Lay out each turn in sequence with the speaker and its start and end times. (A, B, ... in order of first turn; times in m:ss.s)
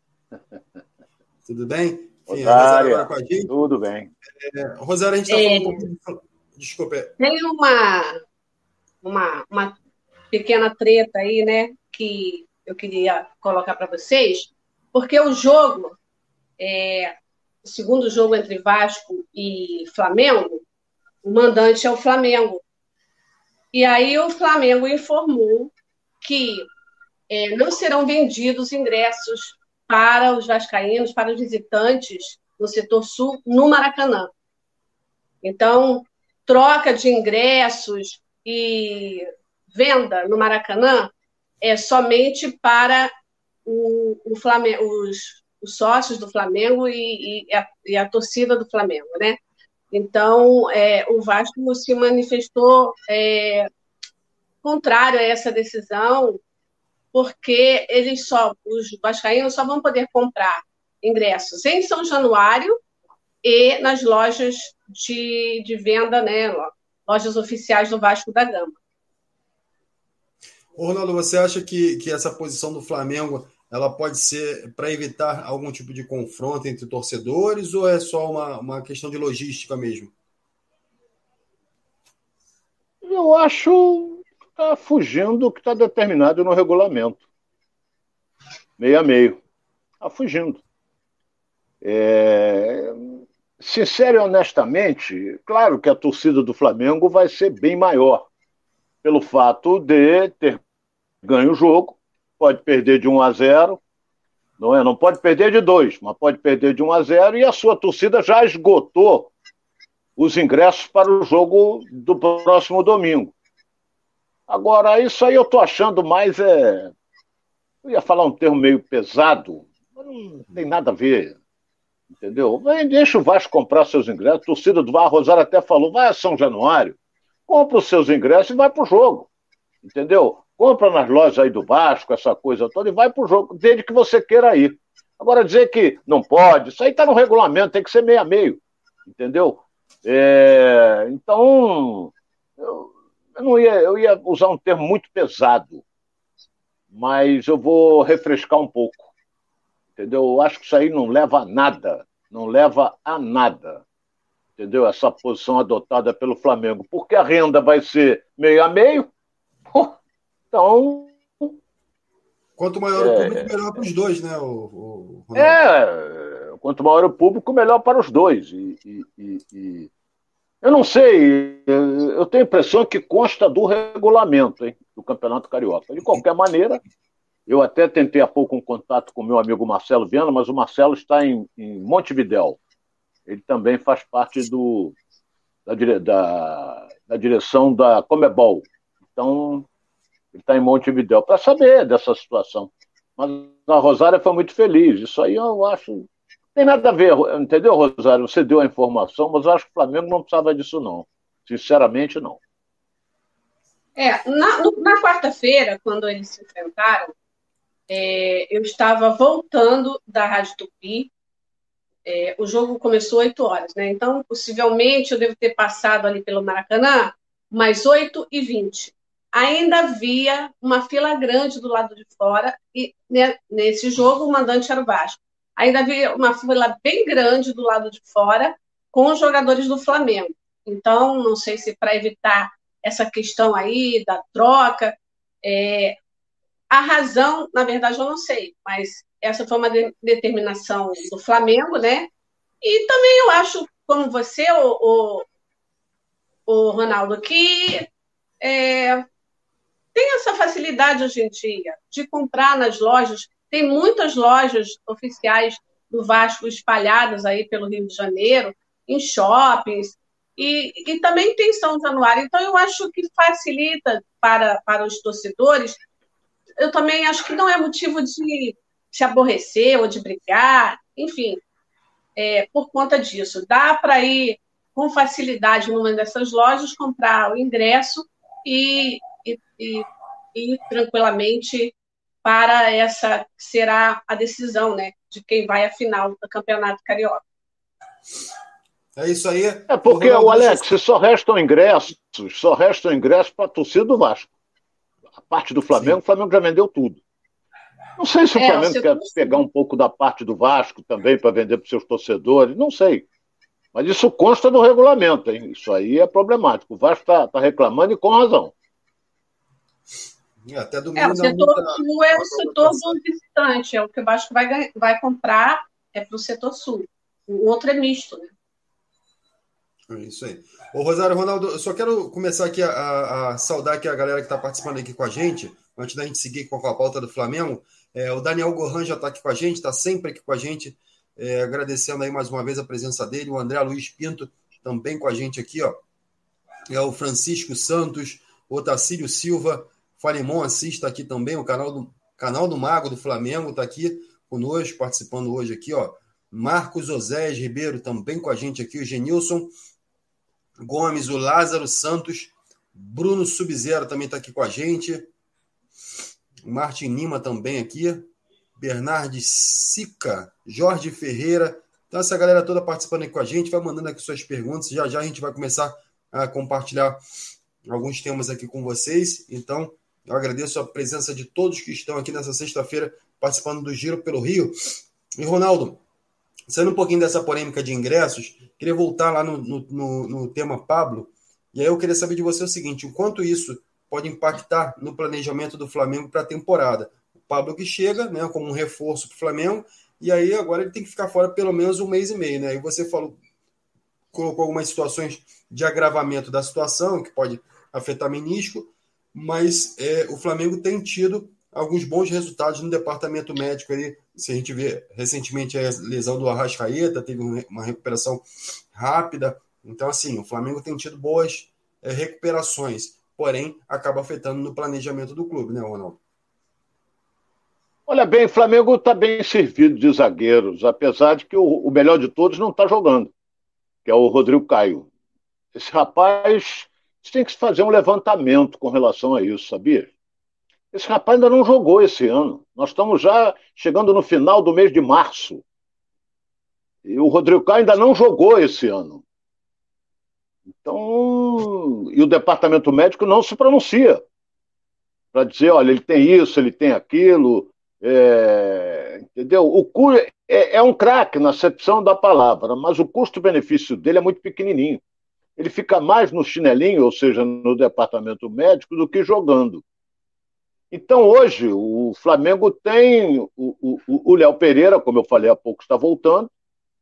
0:01.4-0:03.6 A
0:02.3-0:04.1 B
0:04.4-0:07.1 A
0:05.3-0:05.8 C
0:07.2-0:08.2 C
0:09.0-0:09.8 C
0:10.3-0:16.0 C
0:16.6-0:20.6 C
0:21.2-0:22.6 C
0:23.7-0:26.7 C
0:27.3-0:34.3 C
0:35.4-0:43.1 C
0:43.7-0:49.4 C
0:49.9-0:53.7 C
0:54.6-0:56.4 C
0:57.1-1:02.8 C
1:03.4-1:08.8 C
1:10.8-1:20.1 A
1:23.0-1:27.2 B
1:28.8-1:29.4 B
1:30.0-1:30.6 B
1:31.8-1:33.0 B
1:33.6-1:38.3 B
1:39.0-1:40.6 B
1:41.2-1:43.8 B
1:44.6-1:49.3 B
1:50.2-1:53.3 B
1:54.5-1:56.9 B
1:57.8-2:01.4 B
2:02.1-2:09.3 B
2:09.8-2:25.8 B
2:26.9-2:29.1 B
2:30.0-2:33.8 B
2:34.6-2:39.1 B
2:40.5-2:41.5 B
2:42.6-2:45.6 A
2:43.0-2:43.5 B
2:45.4-2:49.9 B
2:50.6-2:56.8 B
2:57.5-3:02.6 B
3:03.3-3:05.0 B
3:05.7-3:09.7 B
3:10.3-3:22.4 B
3:24.0-3:27.2 C
3:27.9-3:31.1 C
3:32.0-3:56.0 C
3:56.7-4:02.1 C
4:02.6-4:05.3 C
4:06.5-4:07.9 C
4:08.4-4:09.0 C
4:10.0-4:25.8 C
4:26.6-4:31.4 C
4:32.2-4:47.2 C
4:49.0-4:50.7 A
4:49.7-4:54.3 B
4:55.2-4:57.0 B
4:58.0-5:03.1 B
4:58.4-4:59.4 C
5:03.8-5:08.5 B
5:10.5-5:13.0 A
5:11.0-5:18.3 C
5:19.9-5:35.8 A
5:36.7-5:49.5 A
5:50.6-5:55.1 A
5:56.4-6:07.0 A
6:07.7-6:14.5 A
6:15.2-6:15.8 A
6:16.5-6:33.2 A
6:34.1-6:56.0 A
6:57.9-7:03.1 B
7:03.8-7:04.9 B
7:05.5-7:09.9 B
7:10.7-7:15.4 B
7:16.8-7:19.0 B
7:20.6-7:24.0 B
7:25.1-7:34.8 B
7:35.4-7:39.6 B
7:40.7-7:46.3 B